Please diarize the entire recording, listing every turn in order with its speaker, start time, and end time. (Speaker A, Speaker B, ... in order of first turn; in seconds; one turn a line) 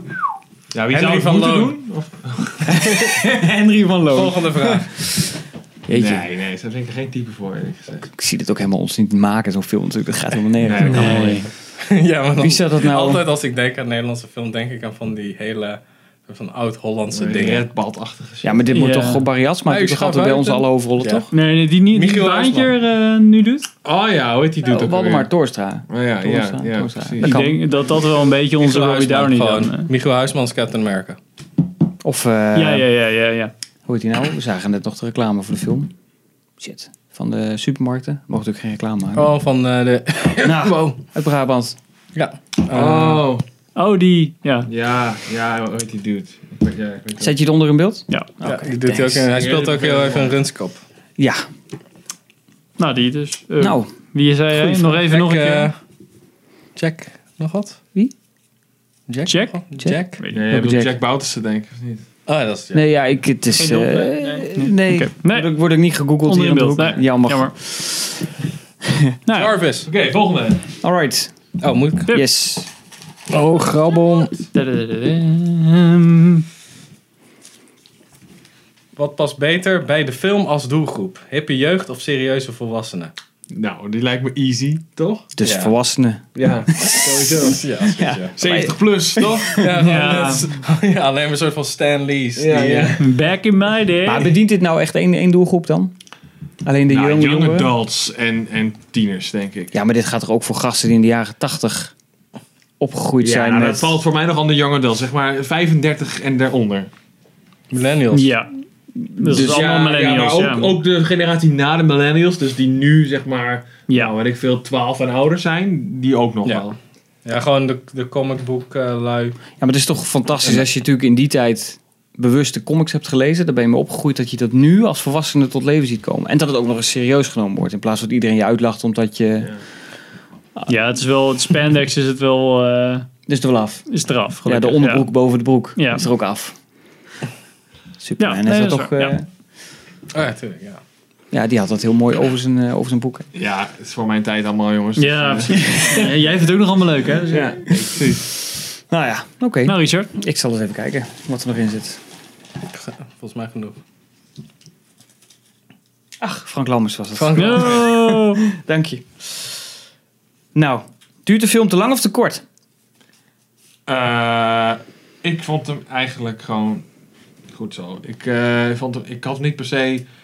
Speaker A: 0.7-2.9
Speaker B: 0.9-1.7
Speaker C: 2.7-4.3
Speaker B: 2.9-3.2
Speaker B: 4.1-5.0
Speaker C: 5.9-6.3
Speaker A: 5.9-8.1
Speaker C: 8.1-11.5
Speaker A: 10.6-11.4
Speaker D: 10.9-11.5
Speaker B: 11.8-17.7
Speaker C: 12.4-13.2
Speaker A: 17.1-18.7
Speaker C: 18.4-21.3
Speaker D: 18.7-19.2
Speaker B: 19.7-22.7
Speaker D: 21.3-23.7
Speaker A: 23.8-25.3
Speaker C: 24.6-27.6
Speaker A: 25.9-27.4
Speaker D: 27.2-29.9
Speaker B: 27.9-31.2
Speaker C: 32.0-32.9
Speaker D: 32.5-33.5
Speaker C: 33.9-35.9
Speaker C: 36.6-39.3
Speaker B: 39.1-41.0
Speaker C: 40.4-41.8
Speaker B: 42.1-43.2
Speaker A: 42.7-43.4
Speaker D: 43.7-44.7
Speaker A: 44.6-47.3
Speaker C: 47.2-49.2
Speaker B: 48.4-50.8
Speaker A: 49.3-50.4
Speaker C: 51.2-51.4
Speaker D: 52.8-55.7
Speaker C: 53.6-53.9
Speaker B: 54.5-55.8
Speaker B: 56.8-57.8
Speaker B: 59.1-60.2
Speaker D: 59.3-59.6
Speaker C: 59.8-61.0
Speaker D: 60.2-60.4
Speaker A: 60.3-62.0
Speaker B: 62.3-62.9
Speaker C: 62.7-68.2
Speaker D: 63.6-65.5
Speaker D: 66.2-67.5
Speaker C: 68.9-69.1
Speaker D: 69.2-69.5
Speaker B: 69.3-69.9
Speaker A: 69.8-70.7
Speaker C: 70.8-71.3
Speaker B: 71.6-72.1
Speaker C: 72.1-72.7
Speaker B: 73.3-74.4
Speaker D: 74.5-76.4
Speaker B: 79.0-83.1
Speaker A: 83.5-85.3
Speaker C: 85.3-89.6
Speaker B: 85.4-85.7
Speaker A: 86.3-87.7
Speaker B: 86.9-88.3
Speaker A: 88.3-89.9
Speaker B: 89.2-93.0
Speaker D: 89.8-90.5
Speaker A: 92.3-93.1
Speaker D: 93.0-94.4
Speaker C: 94.0-95.9
Speaker C: 96.6-97.7
Speaker A: 96.9-99.7
Speaker C: 99.7-101.9
Speaker C: 102.8-104.0
Speaker A: 103.2-106.9
Speaker B: 107.7-108.3
Speaker D: 108.1-110.7
Speaker A: 109.2-116.8
Speaker B: 116.4-116.7
Speaker B: 117.2-119.4
Speaker C: 119.6-129.6
Speaker D: 130.7-133.1
Speaker C: 133.3-133.9
Speaker D: 133.9-135.1
Speaker C: 134.4-136.6
Speaker D: 135.8-136.0
Speaker C: 138.0-139.3
Speaker D: 138.2-139.1
Speaker B: 140.1-140.8
Speaker C: 141.3-143.3
Speaker A: 143.3-146.1
Speaker D: 145.0-147.6
Speaker A: 147.3-148.2
Speaker C: 148.8-152.0
Speaker D: 149.7-150.1
Speaker B: 152.7-153.8
Speaker C: 156.2-159.6
Speaker B: 157.1-157.9
Speaker D: 157.3-158.4
Speaker C: 160.5-162.4
Speaker A: 163.9-166.8
Speaker A: 167.5-170.1